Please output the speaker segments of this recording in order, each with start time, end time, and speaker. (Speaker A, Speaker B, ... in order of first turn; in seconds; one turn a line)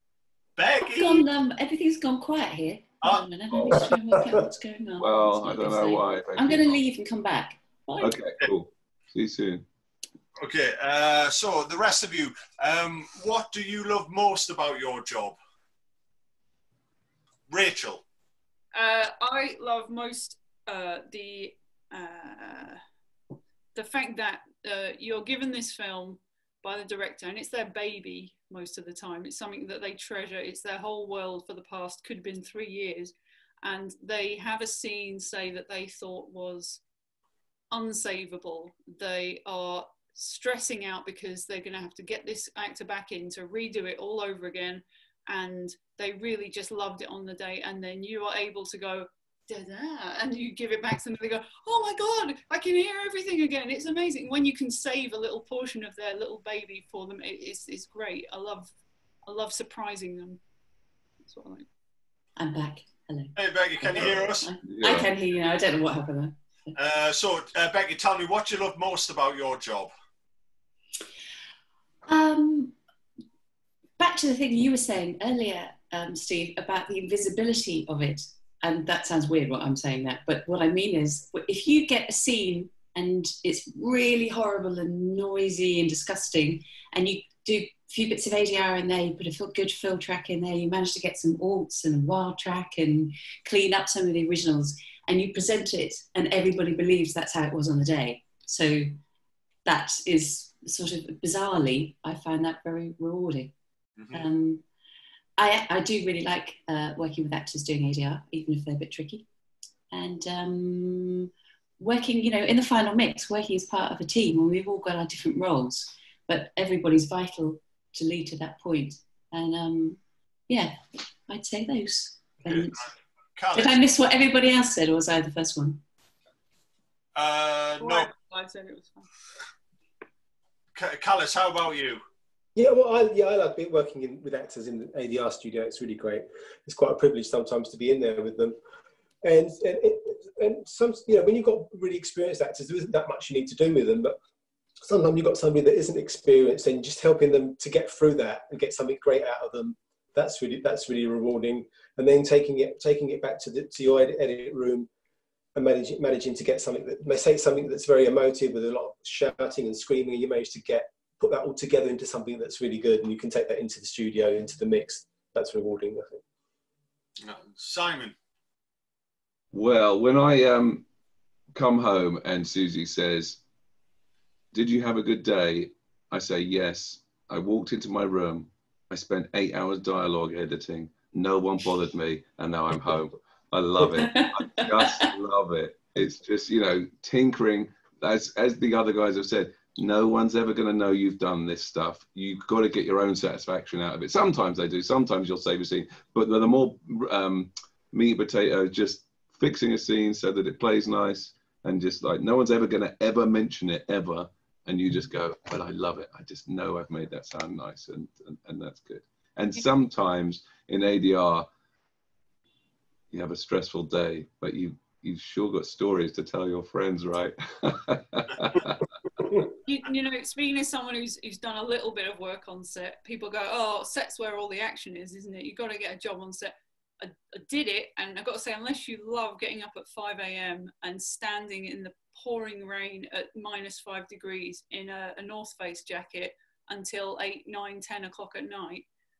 Speaker A: 0.6-1.2
Speaker B: 0.8-8.2
Speaker C: 3.5-3.9
Speaker C: 5.0-6.8
Speaker C: 8.0-9.6
Speaker A: 10.4-15.3
Speaker A: 17.5-18.0
Speaker D: 18.7-22.8
Speaker D: 23.7-36.8
Speaker D: 37.7-58.7
Speaker D: 59.2-60.4
Speaker D: 61.2-61.6
Speaker B: 62.4-66.7
Speaker A: 63.4-64.5
Speaker C: 64.6-65.1
Speaker A: 66.7-69.9
Speaker B: 72.0-72.7
Speaker B: 74.0-99.0
Speaker B: 99.6-103.5
Speaker A: 104.0-104.2
Speaker B: 104.1-104.6
Speaker B: 105.4-109.2
Speaker B: 109.9-122.9
Speaker A: 122.4-123.8
Speaker B: 123.5-125.8
Speaker A: 127.2-128.1
Speaker D: 127.8-129.1
Speaker A: 130.7-132.0
Speaker E: 132.5-138.6
Speaker E: 139.2-144.2
Speaker E: 144.8-154.9
Speaker E: 155.5-166.2
Speaker A: 167.2-168.1
Speaker C: 169.5-170.8
Speaker C: 171.5-173.4
Speaker C: 174.5-211.5
Speaker B: 183.8-185.1
Speaker C: 213.1-218.8
Speaker D: 219.7-238.8